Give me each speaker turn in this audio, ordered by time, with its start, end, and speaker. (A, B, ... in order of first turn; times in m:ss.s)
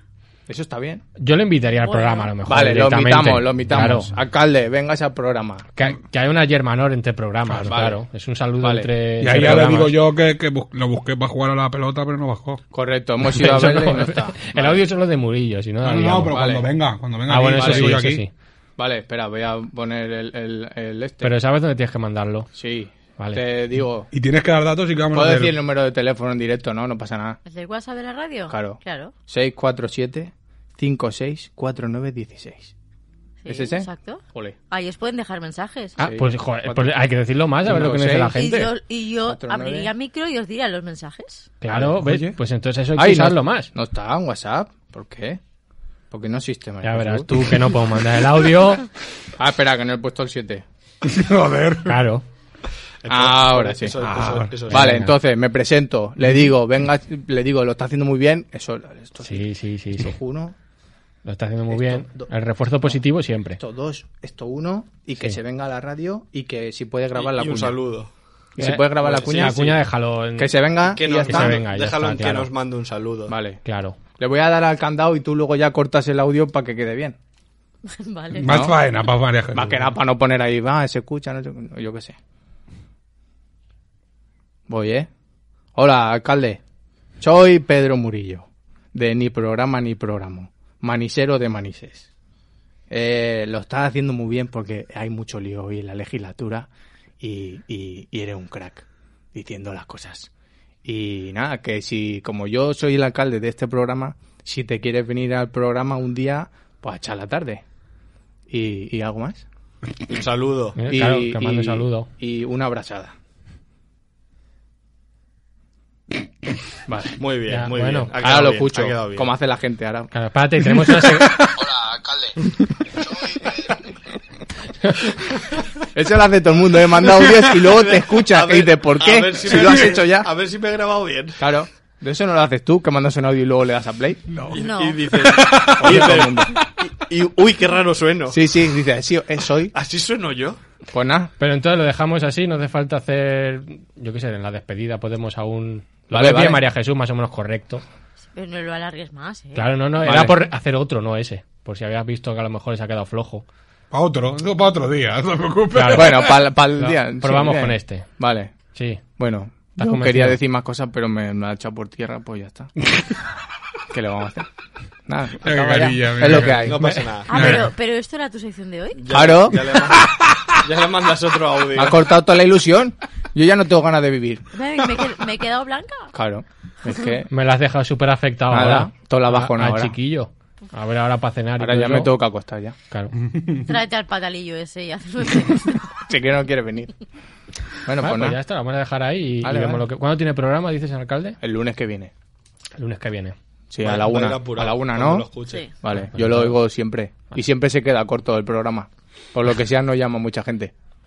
0:00.5-0:01.0 A
0:01.2-0:04.1 B
0:01.8-0:02.3 C
0:02.5-0:05.7 A
0:05.8-0:10.0 B
0:07.6-0:08.0 A
0:08.6-0:09.7 A
0:09.2-0:12.6 D
0:12.7-0:14.8 A
0:13.3-0:16.4 B
0:15.8-0:18.2 D
0:16.2-0:16.7 A
0:17.3-0:18.3 B
0:17.5-0:18.1 A
0:18.8-0:21.3 A
0:21.2-0:22.5 B
0:22.6-0:24.1 A
0:24.1-0:25.6 D
0:25.1-0:27.4 A
0:27.4-0:29.1 C
0:28.5-0:32.7 A
0:33.4-0:36.0 C
0:33.5-0:34.6 A
0:36.0-0:37.0 A
0:36.0-0:38.7 B
0:37.6-0:38.4 A
0:38.4-0:41.5 C
0:39.3-0:39.9 A
0:41.6-0:43.7 B
0:42.0-0:42.4 D
0:43.0-0:45.4 A
0:46.1-0:47.6 A
0:46.8-0:48.9 B
0:49.4-0:50.6 A
0:51.0-0:52.0 D
0:51.9-0:52.2 B
0:53.0-0:54.9 E
0:53.1-0:54.0 A
0:54.0-0:54.5 D
0:54.7-0:55.1 B
0:54.7-1:00.5 A
0:59.2-1:00.2 B
1:01.2-1:03.6 B
1:01.7-1:02.3 A
1:03.6-1:07.8 A
1:07.2-1:08.1 E
1:08.6-1:09.8 A
1:08.6-1:10.5 B
1:09.0-1:09.6 E
1:10.4-1:11.6 A
1:10.9-1:13.3 E
1:11.3-1:12.5 B
1:13.3-1:13.6 A
1:13.6-1:14.0 B
1:14.1-1:17.2 A
1:17.9-1:18.5 C
1:18.4-1:19.9 D
1:18.5-1:18.8 A
1:19.5-1:22.2 A
1:24.7-1:25.1 A
1:25.8-1:26.6 A
1:27.2-1:32.1 A
1:32.9-1:36.7 A
1:37.2-1:40.3 A
1:40.8-1:47.6 A
1:48.5-1:49.4 A
1:50.1-1:50.8 E
1:50.8-1:52.1 B
1:50.9-1:53.1 A
1:56.9-1:57.2 A
1:57.2-1:59.3 E
1:57.5-1:58.1 B
1:58.2-2:00.1 A
2:00.1-2:01.5 B
2:01.4-2:02.4 A
2:03.2-2:03.5 A
2:05.9-2:10.3 A
2:07.7-2:11.4 E
2:11.4-2:14.3 A
2:14.3-2:16.4 D
2:14.5-2:18.4 E
2:14.6-2:15.1 C
2:15.8-2:16.6 A
2:18.3-2:19.7 A
2:19.7-2:20.6 E
2:20.9-2:21.3 A
2:21.4-2:27.8 B
2:26.1-2:26.6 A
2:28.3-2:29.7 C
2:29.6-2:33.4 B
2:30.0-2:30.4 A
2:33.9-2:36.4 D
2:35.8-2:36.3 B
2:35.9-2:38.5 A
2:36.8-2:38.1 B
2:38.8-2:39.0 B
2:39.2-2:42.7 A
2:39.8-2:40.4 B
2:43.9-2:44.5 A
2:45.1-2:47.0 A
2:45.4-2:47.7 D
2:46.5-2:47.4 E
2:46.8-2:47.5 B
2:47.3-2:49.2 C
2:49.0-2:50.1 E
2:49.1-2:50.0 A
2:50.6-2:52.0 E
2:51.8-2:54.4 A
2:54.5-2:56.1 C
2:56.1-2:57.3 A
2:57.3-3:02.1 B
2:58.5-3:00.0 A
3:01.6-3:02.8 A
3:03.2-3:03.6 D
3:03.6-3:06.0 C
3:06.1-3:07.0 A
3:07.8-3:08.4 A
3:08.0-3:11.4 B
3:09.4-3:09.8 A
3:11.4-3:12.1 A
3:12.8-3:13.4 B
3:13.7-3:15.3 A
3:13.8-3:15.7 E
3:15.8-3:20.7 A
3:15.9-3:16.6 B